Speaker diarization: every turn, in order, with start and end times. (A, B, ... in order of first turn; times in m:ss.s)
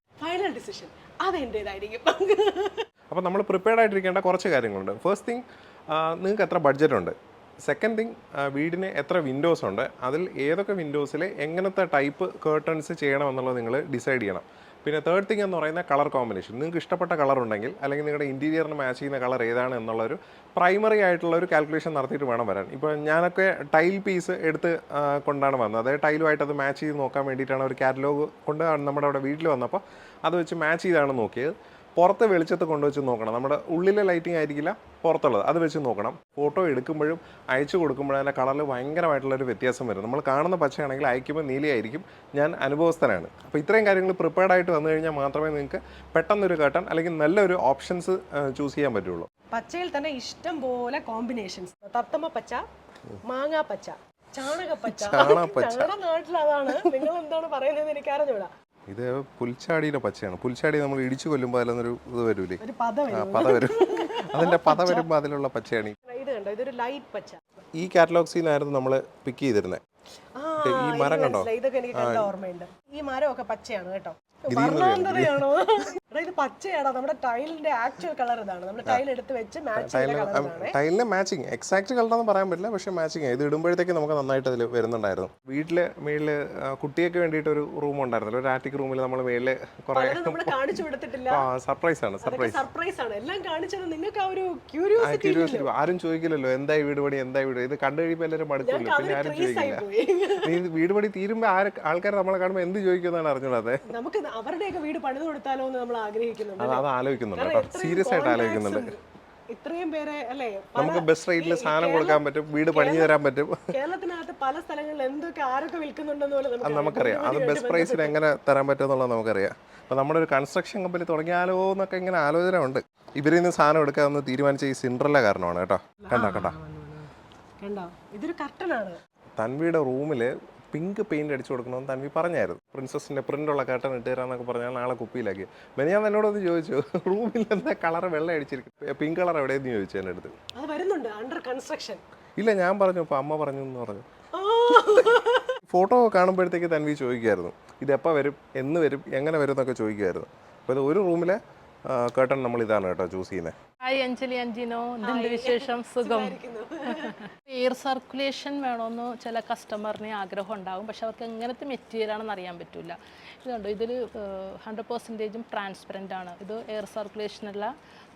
0:00.2-0:02.8 A
0:03.1-0:07.1 B
0:07.6-0:49.3 B
0:49.5-0:52.6 A
0:53.2-0:58.5 A
0:54.9-0:55.9 B
0:58.9-1:02.6 B
1:02.6-1:05.0 A
1:03.1-1:06.0 B
1:06.1-1:07.4 A
1:07.8-1:09.8 B
1:10.4-1:20.8 A
1:10.6-1:12.2 B
1:14.5-1:15.4 B
1:19.8-1:30.6 B
1:29.9-1:31.4 A
1:31.3-1:32.6 B
1:32.2-1:35.7 A
1:35.0-1:39.8 B
1:38.6-1:40.6 A
1:40.4-1:43.8 B
1:43.9-1:53.1 A
1:46.6-1:48.9 B
1:50.8-1:53.7 B
1:53.7-1:58.1 A
1:56.6-2:06.6 B
2:06.0-2:09.0 A
2:09.4-2:20.3 B
2:20.6-2:22.0 A
2:22.4-2:24.0 B
2:24.3-2:25.6 A
2:25.7-2:33.6 B
2:33.8-2:36.4 C
2:35.0-2:37.2 A
2:36.9-2:47.7 C